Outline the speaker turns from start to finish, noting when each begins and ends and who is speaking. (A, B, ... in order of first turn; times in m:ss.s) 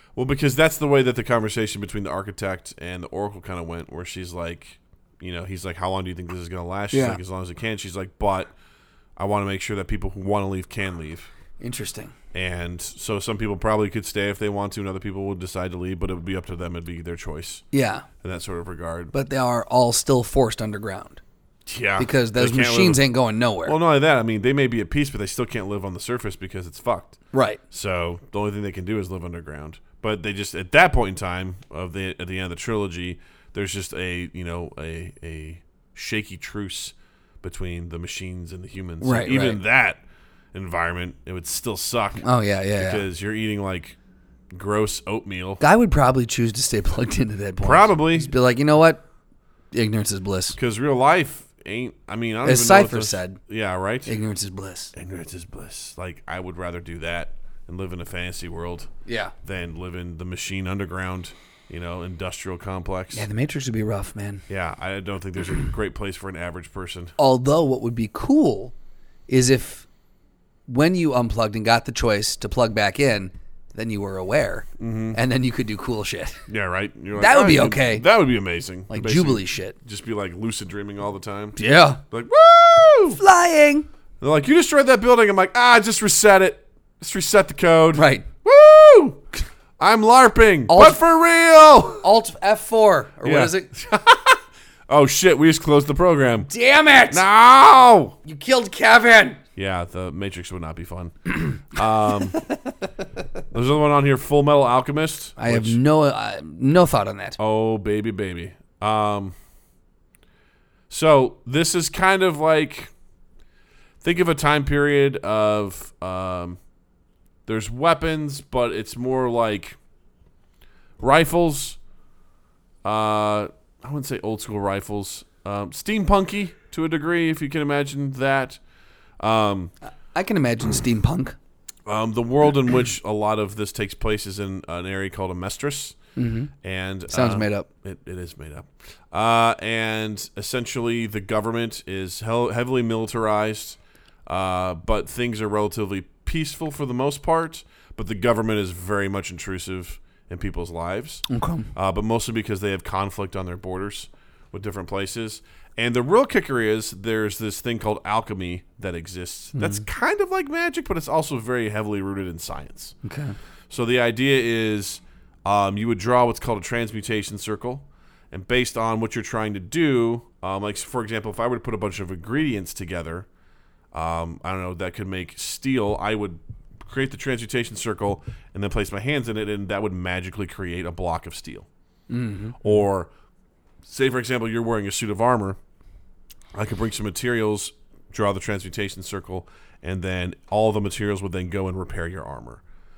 0:00.2-0:08.5 A
0:06.9-0:07.2 B
0:09.2-0:11.3 A
0:11.6-0:12.1 B
0:12.3-0:17.6 A
0:17.7-0:18.0 B
0:18.2-0:19.1 A
0:19.1-0:21.2 B
0:21.6-0:23.0 A
0:22.0-0:23.8 B
0:23.6-0:27.2 A
0:27.3-0:27.6 B
0:27.7-0:40.0 A
0:39.0-0:39.6 B
0:40.5-0:44.0 A
0:42.2-0:43.0 B
0:44.5-0:45.6 A
0:45.6-0:49.0 B
0:47.6-0:48.3 A
0:49.7-0:50.6 B
0:50.6-0:54.1 A
0:52.4-0:53.4 B
0:54.0-0:54.9 B
0:54.9-0:58.9 A
0:59.0-0:59.3 B
0:59.4-1:03.2 A
1:03.1-1:04.4 B
1:04.5-1:07.1 A
1:07.2-1:08.7 B
1:09.3-1:09.9 B
1:10.7-1:16.4 B
1:14.8-1:15.2 A
1:16.5-1:21.6 A
1:17.2-1:18.0 B
1:18.9-1:19.7 B
1:21.6-1:22.0 B
1:22.1-1:23.2 A
1:23.2-1:23.9 B
1:24.2-1:29.2 A
1:27.9-1:28.2 B
1:29.8-1:32.0 A
1:30.7-1:31.0 B
1:32.0-1:33.7 B
1:33.2-1:36.5 A
1:36.5-1:37.2 B
1:37.1-1:38.2 A
1:38.2-1:39.4 B
1:39.6-1:42.4 A
1:43.5-1:45.8 A
1:45.4-1:47.4 B
1:47.4-1:49.3 A
1:50.9-1:52.9 A
1:54.0-1:56.6 A
1:57.4-1:59.8 A
2:01.0-2:01.8 A
2:02.8-2:08.6 A
2:09.2-2:09.7 A
2:10.1-2:11.4 B
2:11.9-2:16.0 A
2:16.2-2:16.5 B
2:16.6-2:43.0 A
2:17.1-2:17.6 B
2:31.3-2:31.7 B
2:39.6-2:39.8 B
2:43.0-2:43.4 B
2:43.7-2:53.3 A
2:53.9-3:01.7 A
3:02.1-3:02.7 B
3:02.6-3:03.1 A
3:03.8-3:05.6 A
3:06.5-3:12.6 A